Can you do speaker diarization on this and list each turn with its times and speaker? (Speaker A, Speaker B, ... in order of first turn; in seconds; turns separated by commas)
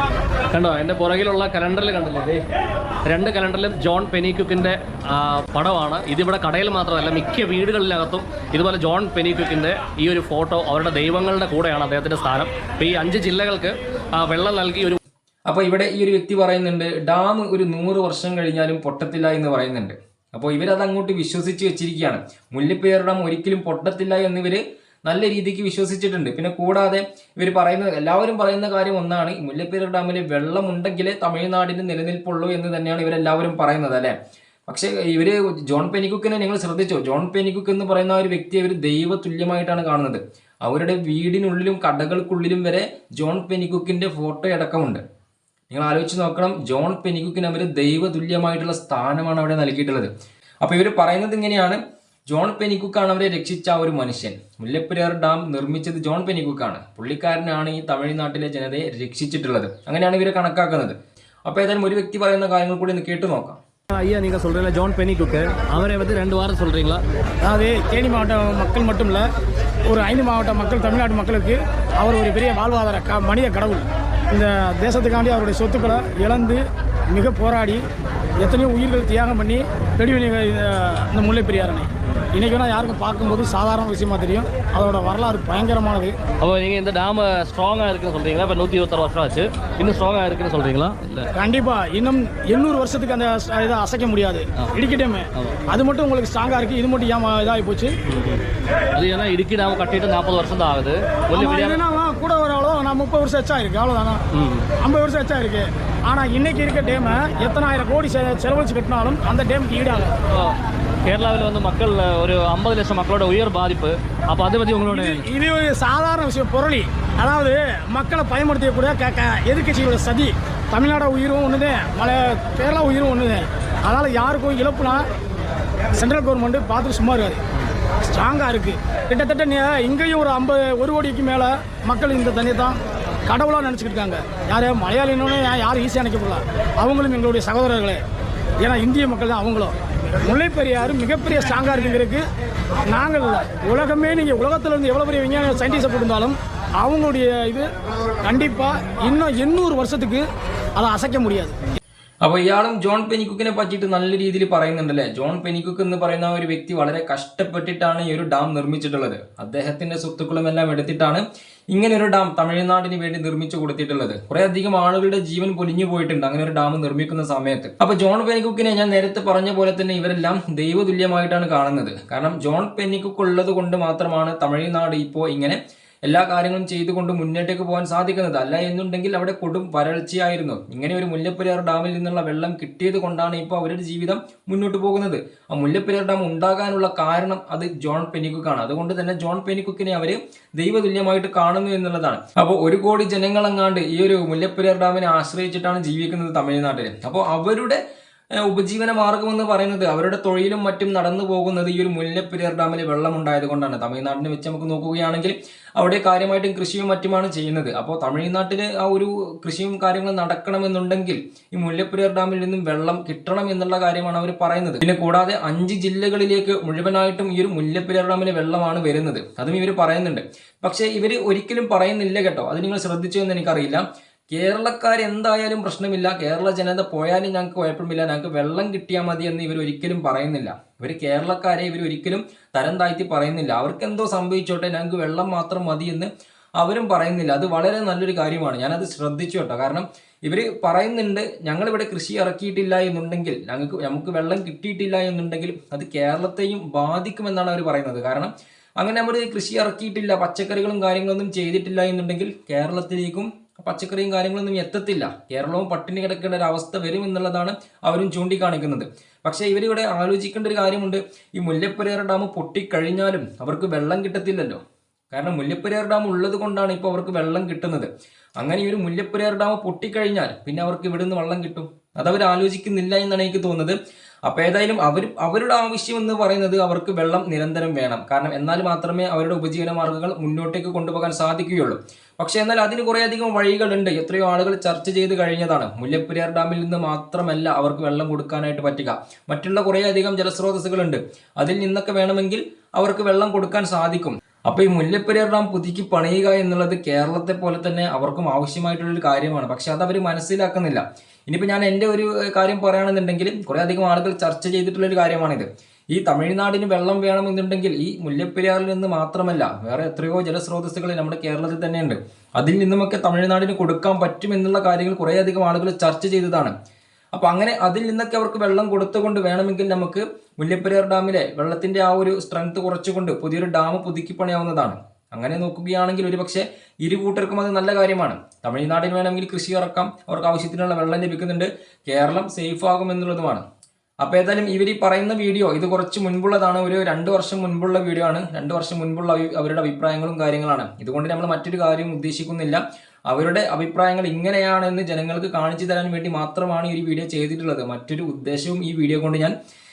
Speaker A: 0.5-2.4, Speaker A: 3.1-15.0, Speaker B: 15.5-34.1, Speaker B: 34.7-45.0, Speaker B: 45.7-50.1, Speaker B: 50.6-51.8, Speaker B: 52.3-60.9, Speaker B: 61.5-63.6, Speaker A: 63.9-67.0, Speaker C: 67.4-69.2, Speaker C: 69.9-77.8, Speaker C: 78.4-86.1, Speaker A: 86.4-91.3, Speaker C: 91.3-97.9, Speaker A: 98.1-98.4, Speaker A: 98.9-101.8, Speaker C: 101.3-104.2, Speaker A: 104.4-104.6, Speaker C: 104.8-110.1, Speaker A: 111.0-115.2, Speaker C: 114.8-125.0, Speaker C: 125.9-127.4, Speaker C: 128.0-138.0, Speaker C: 138.6-139.7, Speaker C: 140.2-142.2, Speaker C: 142.9-147.7, Speaker C: 148.2-150.2, Speaker C: 150.8-151.5, Speaker B: 152.2-197.8, Speaker B: 198.4-264.6, Speaker B: 265.1-316.5, Speaker B: 317.1-333.4, Speaker B: 334.0-349.3